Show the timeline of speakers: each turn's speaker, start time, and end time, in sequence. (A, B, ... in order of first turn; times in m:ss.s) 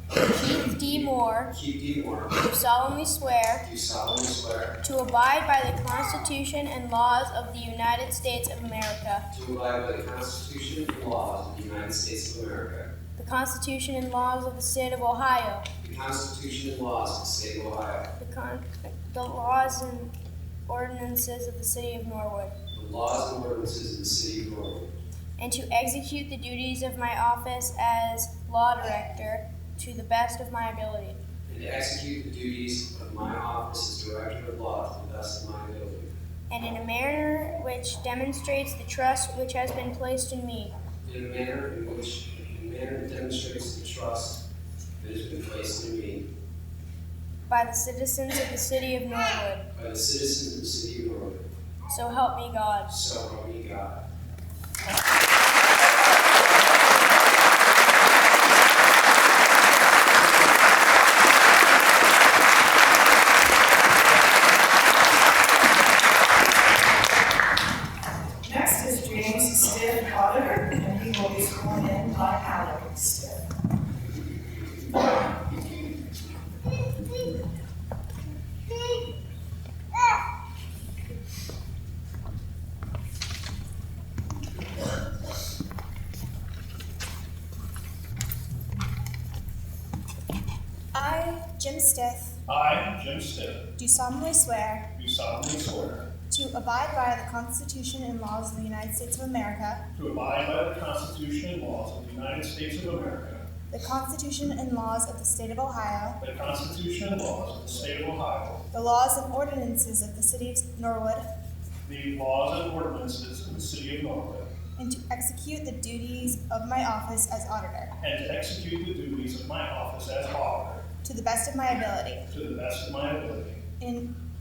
0:00.4-0:01.5 A
0:01.6-0:02.4 B
0:02.4-0:03.6 A
0:03.7-0:04.7 B
0:04.8-0:09.3 A
0:09.4-0:12.9 B
0:13.2-0:15.7 A
0:15.8-0:18.0 B
0:18.2-0:20.1 A
0:20.7-0:22.5 A
0:22.7-0:24.8 B
0:25.4-0:31.2 A
0:31.5-0:36.1 B
0:36.5-0:40.7 A
0:41.1-0:44.4 B
0:45.0-0:46.2 B
0:47.5-0:49.7 A
0:49.8-0:51.4 B
0:51.9-0:52.9 A
0:53.0-0:54.0 B
1:08.4-1:13.4 C
1:31.0-1:32.4 D
1:32.5-1:33.6 E
1:33.8-1:35.0 D
1:35.0-1:36.1 E
1:36.3-1:39.8 D
1:40.0-1:43.4 E
1:43.7-1:46.2 D
1:46.2-1:48.6 E
1:48.7-1:51.2 D
1:51.8-1:54.5 E
1:54.8-1:57.9 D
1:58.0-2:00.8 E
2:01.0-2:02.3 D
2:02.3-2:03.6 E
2:03.8-2:04.1 D